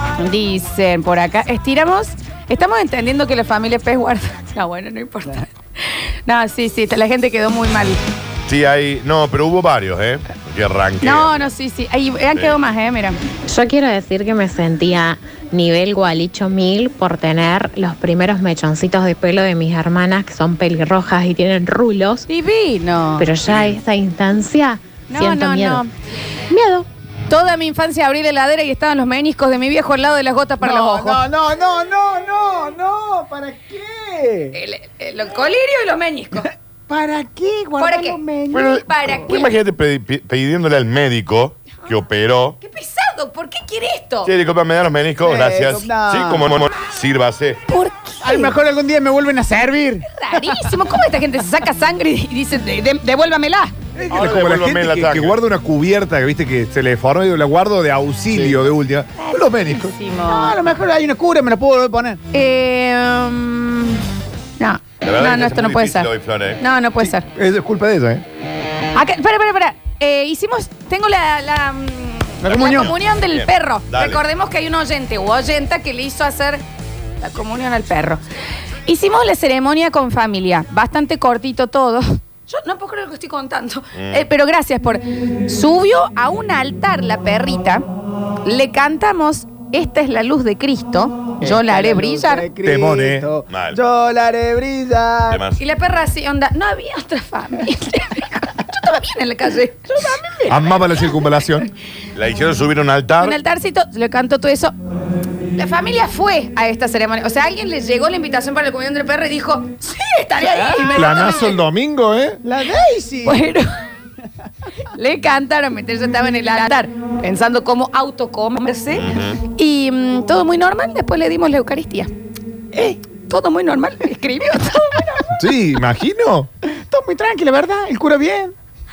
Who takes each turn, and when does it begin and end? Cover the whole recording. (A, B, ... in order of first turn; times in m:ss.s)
0:00.2-0:08.0 A
0:08.5-0:11.5 B
0:11.0-0:13.2 A
0:13.5-0:22.3 C
0:22.3-0:23.3 A
0:23.2-0:25.8 C
0:25.1-0:25.9 A
0:26.5-0:26.9 C
0:27.3-0:31.2 A
0:30.6-0:34.6 D
0:34.5-0:36.5 A
0:36.9-0:38.8 D
0:37.8-0:38.2 A
0:38.5-0:42.6 B
0:38.9-0:39.5 A
0:42.6-0:44.3 A
0:44.2-0:47.6 B
0:45.2-0:46.5 D
0:47.7-0:48.6 A
0:48.2-0:50.6 D
0:50.1-0:53.7 A
0:54.0-1:00.0 E
0:54.1-0:55.4 B
0:58.3-0:58.6 B
0:59.2-1:00.6 A
1:00.3-1:02.2 D
1:02.3-1:04.0 A
1:04.6-1:07.3 A
1:05.0-1:06.6 B
1:07.0-1:08.2 E
1:08.9-1:16.6 A
1:12.4-1:12.9 D
1:12.4-1:14.2 B
1:17.2-1:18.2 A
1:18.9-1:27.9 A
1:24.0-1:24.3 B
1:28.4-1:32.5 A
1:31.4-1:35.4 D
1:32.6-1:33.3 E
1:33.5-1:33.8 B
1:35.3-1:35.6 B
1:35.6-1:40.5 A
1:40.0-1:40.6 D
1:40.5-1:41.7 E
1:42.2-1:43.4 B
1:43.2-1:44.8 A
1:45.6-1:51.6 A
1:50.4-1:51.2 D
1:50.9-1:52.4 E
1:52.4-1:53.4 D
1:53.2-1:53.7 A
1:54.9-2:02.1 A
1:58.9-1:59.4 B
2:02.7-2:03.0 D
2:03.2-2:05.3 A
2:05.4-2:06.5 E
2:06.7-2:08.5 D